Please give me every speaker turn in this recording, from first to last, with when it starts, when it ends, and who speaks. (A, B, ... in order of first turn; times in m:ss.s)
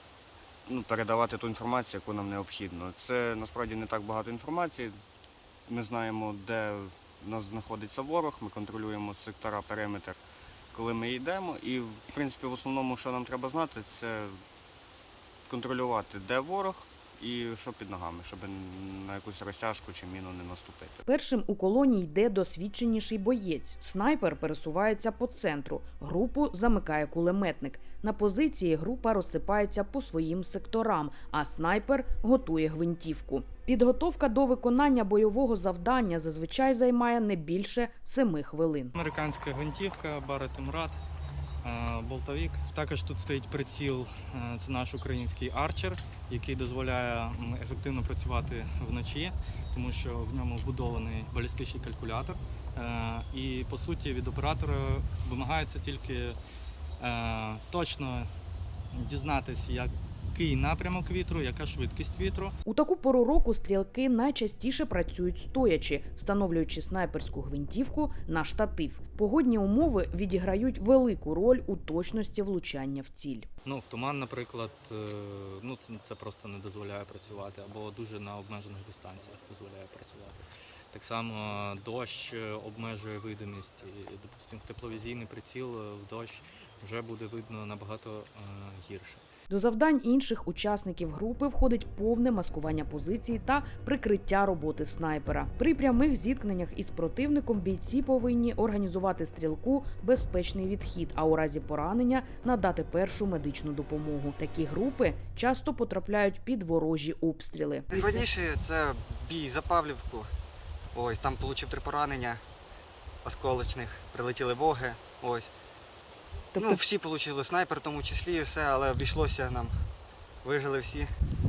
0:00.7-0:04.9 A
0:05.7-0:10.2 A
0:10.7-0:14.4 A
0:15.5-0:21.0 A
0:21.0-0:38.9 B
0:39.0-0:41.0 C
0:41.6-0:56.4 C
0:57.0-0:58.3 C
0:58.9-1:02.5 C
1:02.6-1:13.5 B
1:13.6-1:29.2 C
1:29.5-1:48.2 B
1:47.9-1:50.3 D
1:50.9-1:52.4 D
1:53.2-1:55.5 D
1:56.5-1:56.8 B
1:56.5-1:59.8 D
2:00.4-2:01.1 D